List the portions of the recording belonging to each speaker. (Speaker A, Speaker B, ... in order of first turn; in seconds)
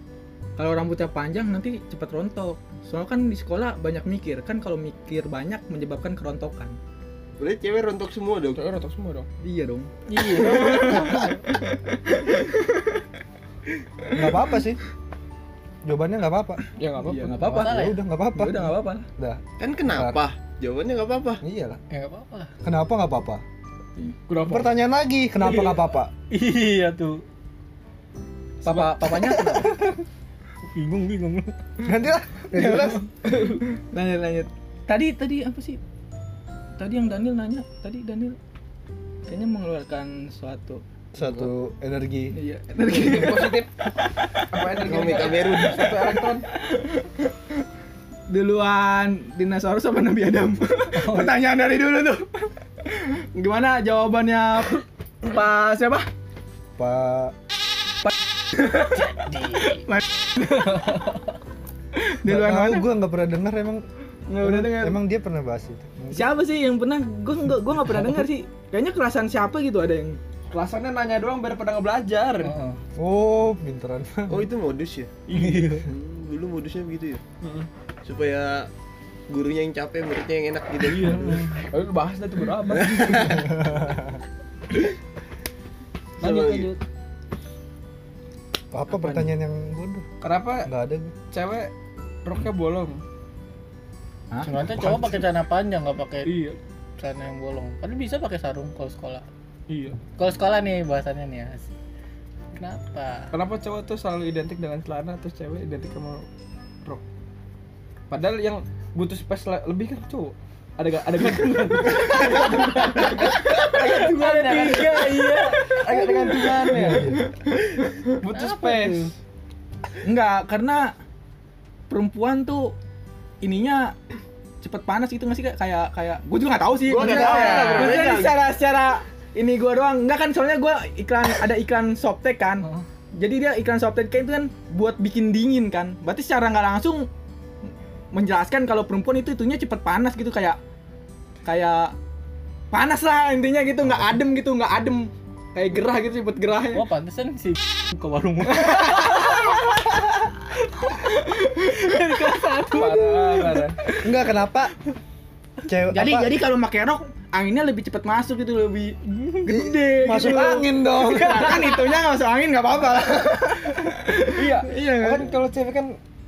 Speaker A: 0.6-6.8, 9.4-12.9, 17.1-17.8, 18.4-19.1, 28.6-29.7, 32.5-35.8, 36.8-38.4, 39.3-40.8, 42.3-43.6, 45.3-45.9, 46.5-47.2, 48.3-56.0, 62.0-62.9, 64.3-65.0, 66.1-70.2, 94.3-95.2, 120.0-120.9, 121.9-122.7, 123.4-123.9, 124.6-137.1, 137.6-140.6, 141.4-141.9, 142.7-146.8, 148.7-149.6, 155.9-165.3
Speaker B: 7.4-8.6, 19.6-21.4, 44.8-45.7, 74.3-75.1, 75.9-77.2, 78.0-78.7, 79.3-81.1, 86.2-86.7, 126.9-128.3
Speaker C: 8.6-9.3, 16.8-17.7, 24.3-24.7, 28.7-28.9, 42.8-43.7, 44.4-46.5, 70.5-72.5, 75.3-75.8, 77.4-77.7, 80.8-83.6, 86.2-86.8, 90.2-90.7, 91.3-91.7, 92.2-93.0, 96.2-96.6, 99.7-100.0, 103.3-106.3, 108.1-117.3, 118.1-119.1, 127.0-127.5, 152.7-153.8, 164.3-166.0
Speaker D: 10.1-11.3, 17.5-18.0, 21.9-22.5, 25.4-27.2, 29.5-30.0, 30.7-31.5, 50.9-51.4, 58.6-59.9, 60.4-61.1, 72.4-72.8, 75.3-75.9, 88.9-89.3, 94.4-96.4, 97.0-99.2, 100.2-101.7, 102.5-103.3, 113.7-116.5, 118.3-119.1, 146.7-150.0, 150.7-153.6, 161.1-161.7
Speaker E: 10.9-11.3, 14.1-14.8, 15.8-16.6, 17.4-20.2, 21.4-21.8, 22.6-23.4, 24.4-26.1, 31.8-33.0, 41.1-42.4, 56.8-57.3, 62.3-63.9, 64.4-66.3, 73.0-74.5, 83.3-84.1, 88.7-90.0, 90.6-91.1, 116.5-117.2, 127.0-128.1, 154.0-154.7, 155.6-156.3, 160.0-161.6